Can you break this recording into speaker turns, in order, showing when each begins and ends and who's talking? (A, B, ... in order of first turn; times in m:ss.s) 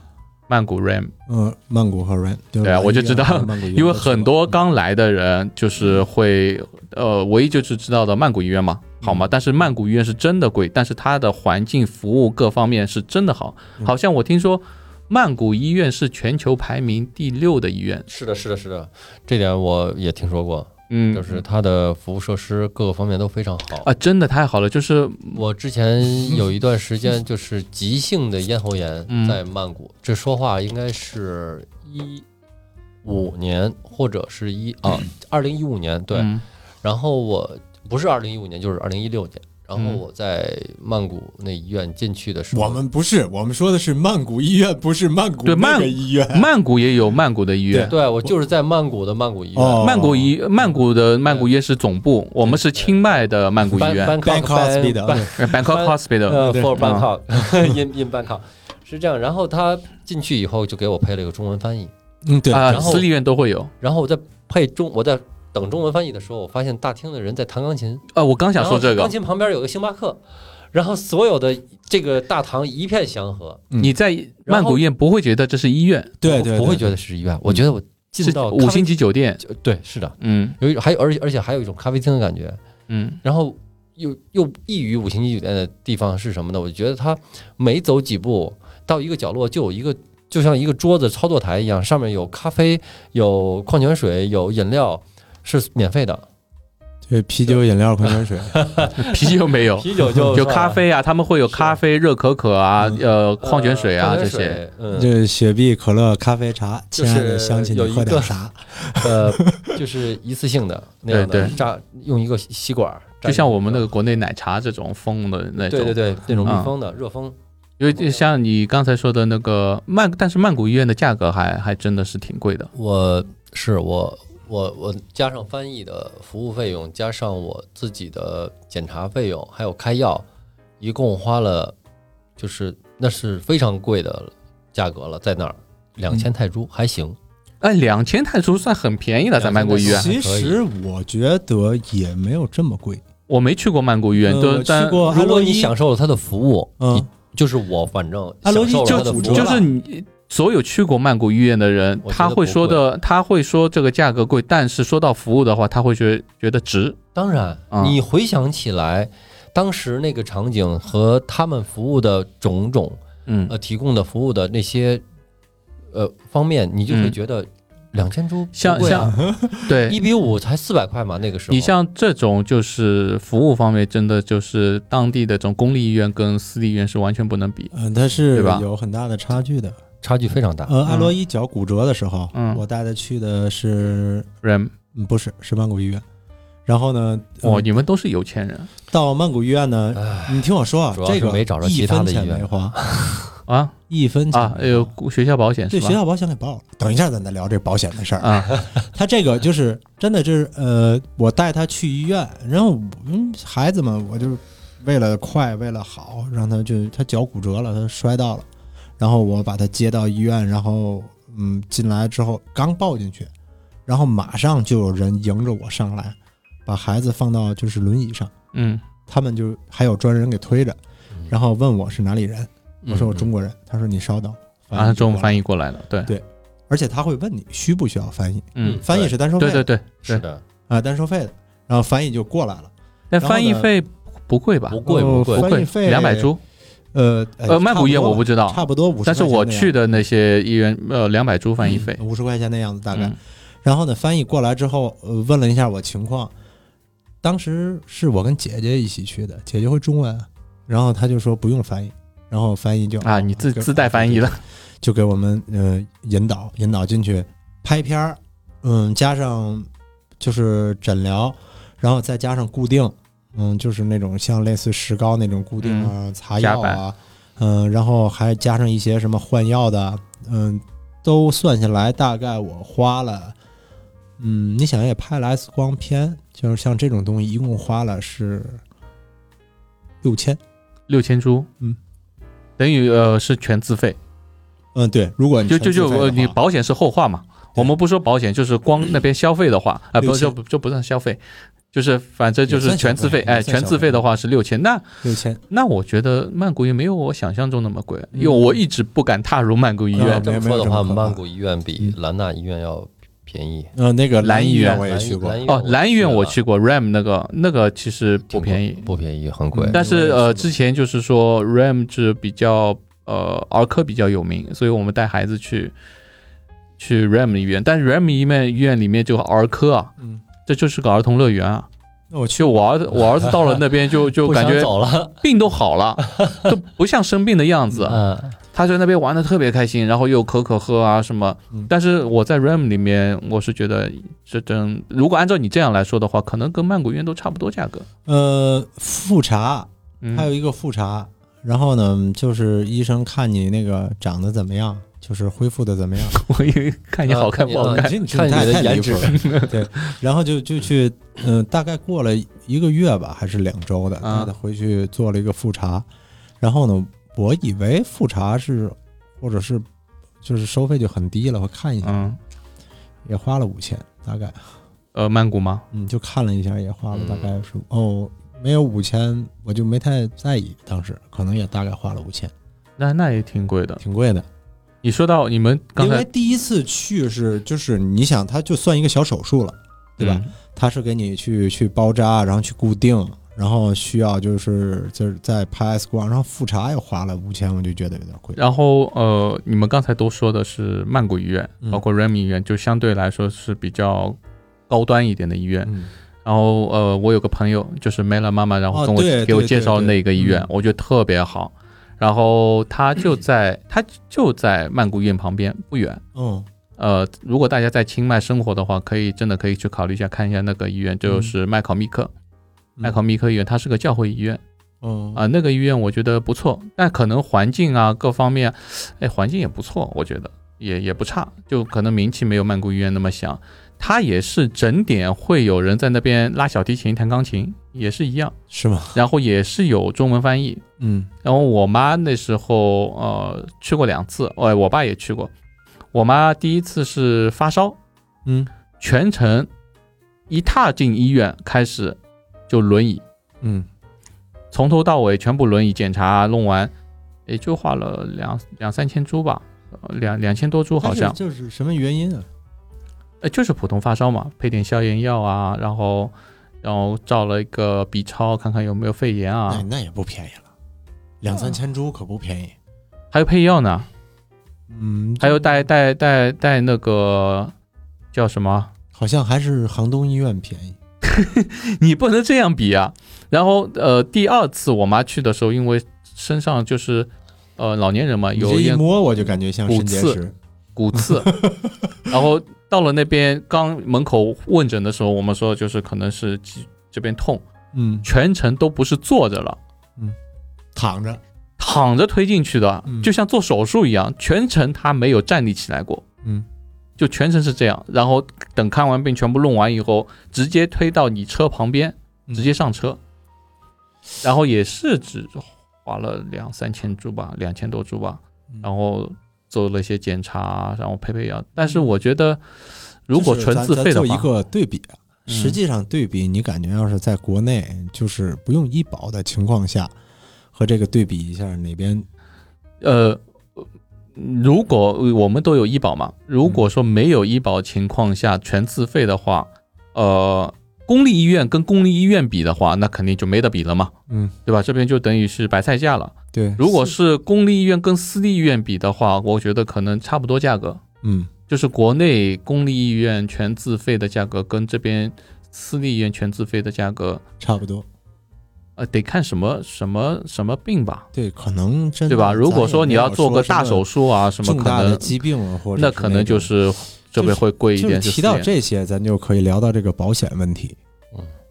0:00.5-0:01.1 A
0:01.3-0:04.6 B
0:02.6-0:18.1 A
0:09.0-0:09.3 B
0:18.1-0:23.9 C
0:20.9-0:21.4 A
0:23.8-0:25.4 A
0:25.3-0:32.2 C
0:29.1-0:29.4 A
0:33.0-0:36.3 C
0:36.1-0:36.4 A
0:36.8-0:42.8 C
0:39.8-0:40.0 A
0:42.5-0:46.5 B
0:45.4-0:47.9 A
0:47.9-0:49.9 C
0:49.6-0:50.3 B
0:49.8-0:54.2 A
0:52.4-0:53.0 C
0:53.6-1:01.9 C
0:54.2-0:55.3 B
0:55.4-0:57.1 A
0:56.3-0:56.8 B
1:02.2-1:03.0 B
1:02.5-1:03.7 A
1:02.7-1:03.1 C
1:03.8-1:13.6 C
1:08.1-1:09.1 A
1:13.7-1:14.0 B
1:13.8-1:16.2 A
1:14.5-1:14.8 C
1:16.2-1:17.0 B
1:16.2-1:22.6 C
1:18.2-1:19.4 A
1:20.2-1:20.6 A
1:22.9-1:23.2 A
1:23.2-1:36.3 C
1:37.0-1:38.6 B
1:38.0-1:40.8 C
1:39.0-1:44.6 A
1:41.5-1:41.8 C
1:43.4-1:45.1 C
1:44.9-1:49.8 B
1:47.0-1:48.4 C
1:48.9-1:53.9 C
1:51.1-1:51.6 A
1:53.2-1:56.7 A
1:55.6-1:57.4 C
1:57.8-2:02.7 A
1:57.9-1:58.2 C
2:02.7-2:10.3 C
2:10.8-2:11.7 C
2:12.4-2:17.2 C
2:17.6-2:20.1 A
2:19.3-2:20.6 C
2:19.8-2:23.0 B
2:23.3-2:25.0 A
2:24.2-2:25.7 B
2:25.0-2:29.6 C
2:26.8-2:27.1 B
2:28.4-2:29.7 B
2:28.8-2:37.0 A
2:32.0-2:32.8 C
2:37.1-2:45.0 C
2:37.7-2:38.0 A
2:43.3-2:43.5 A
2:45.9-2:49.2 C
2:46.9-2:47.1 A
2:48.6-2:50.0 A
2:48.8-2:49.7 B
2:49.7-2:51.7 C
2:51.5-2:57.7 A
2:57.7-2:59.8 B
2:58.3-2:58.7 A
3:00.0-3:00.8 C
3:00.7-3:04.3 B
3:00.9-3:01.1 A
3:02.3-3:02.6 A
3:04.4-3:04.7 A
3:04.9-3:06.0 B
3:06.7-3:07.7 B
3:07.4-3:08.7 A
3:08.9-3:12.8 B
3:10.0-3:13.4 C
3:13.5-3:13.8 A
3:13.9-3:14.9 B
3:14.3-3:16.0 A
3:15.7-3:28.4 B
3:18.2-3:18.6 A
3:29.0-3:33.3 B
3:33.9-3:38.3 B
3:38.5-3:38.8 A
3:39.1-3:40.8 B
3:41.3-3:45.4 B
3:42.8-3:43.3 C
3:44.7-3:46.1 A
3:46.0-3:49.7 B
3:48.6-3:50.2 A
3:48.6-3:49.1 C
3:50.0-3:50.4 C
3:50.7-3:53.7 B
3:53.1-3:54.8 A
3:54.7-3:55.5 C
3:54.8-3:56.3 B
3:55.3-3:56.4 A
3:56.9-3:59.8 B
3:57.5-4:02.0 A
4:01.6-4:06.3 B
4:07.2-4:19.7 B
4:13.0-4:14.4 A
4:20.2-4:33.4 B
4:25.6-4:26.8 A
4:34.2-4:38.6 B
4:40.0-4:40.4 B
4:40.9-4:41.5 A
4:42.6-4:44.0 A
4:44.7-4:46.4 B
4:45.5-4:51.2 A
4:50.0-4:50.3 B
4:51.7-4:54.8 A
4:52.5-4:54.0 B
4:55.0-4:55.4 B
4:55.5-5:00.3 A
4:58.1-4:58.6 B
4:59.9-5:01.2 B
5:00.0-5:03.7 C
5:03.8-5:05.4 B
5:04.2-5:04.9 A
5:04.5-5:06.4 C
5:05.4-5:08.9 A
5:08.3-5:09.9 C
5:09.5-5:10.5 B
5:09.7-5:15.7 A
5:16.8-5:19.9 A
5:20.4-5:21.7 A
5:22.1-5:22.6 B
5:22.4-5:28.0 A
5:23.2-5:23.6 C
5:24.2-5:25.2 C
5:26.0-5:26.5 C
5:27.9-5:28.4 C
5:28.5-5:37.9 A
5:38.0-5:46.2 B
5:40.0-5:40.3 A
5:46.1-5:50.0 A
5:47.0-5:49.4 C
5:47.6-5:55.9 B
5:54.0-5:54.3 A
5:56.4-5:59.7 B
6:00.2-6:02.1 B
6:01.8-6:02.2 A
6:03.0-6:04.4 B
6:05.0-6:05.6 A
6:05.7-6:12.3 B
6:06.9-6:07.3 C
6:12.8-6:13.8 A
6:13.8-6:14.3 B
6:14.8-6:16.0 A
6:15.8-6:28.4 B
6:20.0-6:20.3 A
6:28.4-6:34.2 A
6:34.7-6:35.7 A
6:35.6-6:35.9 B
6:36.2-6:46.0 A
6:38.7-6:40.5 B
6:46.1-6:46.5 B
6:46.8-6:52.1 A
6:51.0-6:51.3 B
6:52.8-6:54.4 A
6:54.8-6:55.2 B
6:55.2-7:08.3 A
7:08.5-7:09.0 B
7:08.9-7:10.6 A
7:10.8-7:11.1 B
7:11.2-7:15.3 A
7:15.9-7:17.8 A
7:18.8-7:19.5 A
7:20.3-7:22.0 A
7:22.5-7:23.0 A
7:23.4-7:23.7 B
7:24.5-7:26.7 A
7:27.3-7:31.2 A
7:30.8-7:32.3 B
7:33.2-7:36.1 A
7:36.6-7:39.7 A
7:39.5-7:40.5 B
7:41.2-7:42.5 B
7:43.1-7:43.9 A
7:44.7-7:45.6 B
7:45.2-7:47.5 A
7:48.1-7:48.7 A
7:48.9-7:50.8 B
7:51.0-7:58.8 A
7:58.4-8:00.3 B
7:59.7-8:00.2 A
8:00.8-8:01.4 A
8:00.9-8:02.2 B
8:02.1-8:07.4 A
8:07.7-8:08.0 B
8:08.0-8:09.6 A
8:10.7-8:11.2 B
8:11.6-8:16.0 A
8:12.9-8:13.1 B
8:17.0-8:23.0 A
8:24.2-8:32.4 A
8:31.6-8:31.9 B
8:33.1-8:34.3 A
8:33.1-8:39.9 B
8:35.3-8:35.6 A
8:40.5-8:42.0 B
8:42.8-8:53.9 A
8:54.1-8:54.3 B
8:54.4-9:00.8 A
8:56.3-8:56.9 B
9:01.0-9:01.3 B
9:01.5-9:07.2 A
9:07.4-9:07.9 B
9:08.8-9:11.0 A
9:11.1-9:13.8 B
9:12.1-9:15.2 A
9:14.4-9:16.5 B
9:15.8-9:18.5 A
9:17.2-9:20.8 B